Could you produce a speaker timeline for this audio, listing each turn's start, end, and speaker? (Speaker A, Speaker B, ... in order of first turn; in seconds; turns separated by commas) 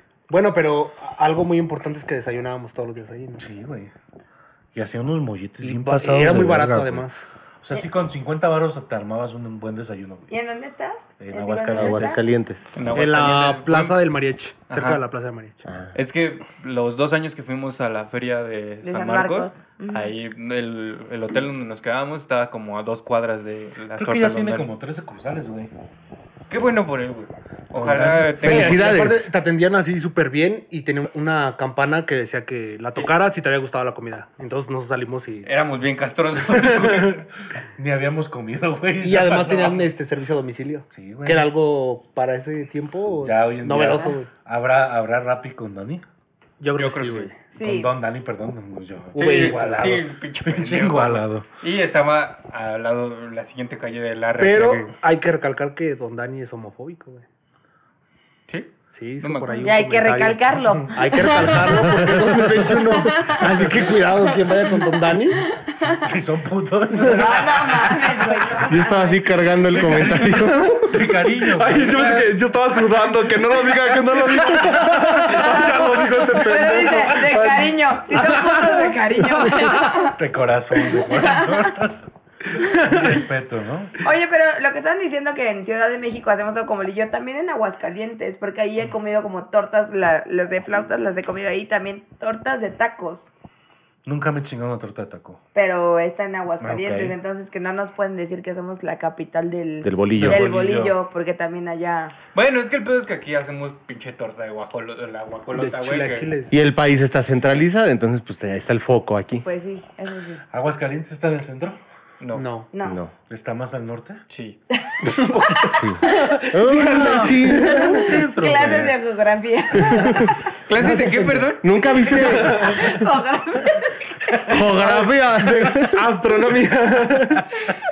Speaker A: 0.3-3.4, Speaker B: 3.4-3.9, Speaker B: 4.7-7.0, Speaker A: 5.6-7.2, Speaker B: 7.6-10.3, Speaker C: 10.3-12.2, Speaker B: 11.2-12.2, Speaker D: 11.7-12.6, Speaker E: 12.7-14.0, Speaker A: 12.9-15.6, Speaker E: 14.7-15.0, Speaker E: 15.9-24.7, Speaker C: 18.8-20.1, Speaker B: 23.9-25.7, Speaker E: 26.5-28.9, Speaker B: 27.8-28.4, Speaker A: 28.4-35.5, Speaker D: 28.4-29.3, Speaker E: 35.4-37.1, Speaker A: 36.5-37.0, Speaker B: 36.6-37.2, Speaker B: 37.8-39.9, Speaker A: 39.0-44.3, Speaker B: 40.9-41.5, Speaker B: 43.2-46.0, Speaker A: 46.6-47.4, Speaker E: 46.8-47.3, Speaker C: 47.5-47.9, Speaker B: 47.6-51.4, Speaker A: 49.1-50.0, Speaker E: 49.1-54.9, Speaker A: 54.4-57.2, Speaker E: 58.5-59.8, Speaker A: 58.9-65.4, Speaker C: 59.6-61.9, Speaker D: 62.0-62.6, Speaker C: 63.0-63.4, Speaker C: 65.4-66.0, Speaker B: 65.9-68.5, Speaker A: 67.0-67.3, Speaker C: 67.1-69.2, Speaker D: 68.7-70.7, Speaker B: 69.7-72.3, Speaker A: 70.2-80.0, Speaker B: 74.3-75.4, Speaker C: 75.3-80.2, Speaker B: 80.2-82.0, Speaker C: 80.8-81.7, Speaker B: 82.6-83.9, Speaker A: 82.7-83.2, Speaker C: 84.0-93.3, Speaker B: 94.0-95.4, Speaker C: 95.5-102.1, Speaker B: 96.6-97.2, Speaker D: 99.8-100.5, Speaker B: 100.1-100.9, Speaker E: 102.3-106.3, Speaker A: 105.5-106.5, Speaker D: 106.5-109.4, Speaker C: 109.4-110.4, Speaker B: 110.5-111.8, Speaker E: 112.2-112.5, Speaker A: 112.3-112.7, Speaker C: 112.7-113.0, Speaker D: 112.8-113.1, Speaker B: 113.3-114.2, Speaker E: 114.3-114.6, Speaker C: 114.8-115.8, Speaker A: 115.0-118.2, Speaker D: 115.7-118.7, Speaker B: 116.7-118.9, Speaker C: 118.0-120.4, Speaker D: 119.9-120.3, Speaker E: 120.7-121.7, Speaker A: 120.7-122.8, Speaker D: 121.6-122.8, Speaker C: 122.5-124.5, Speaker D: 124.5-126.0, Speaker A: 124.6-127.5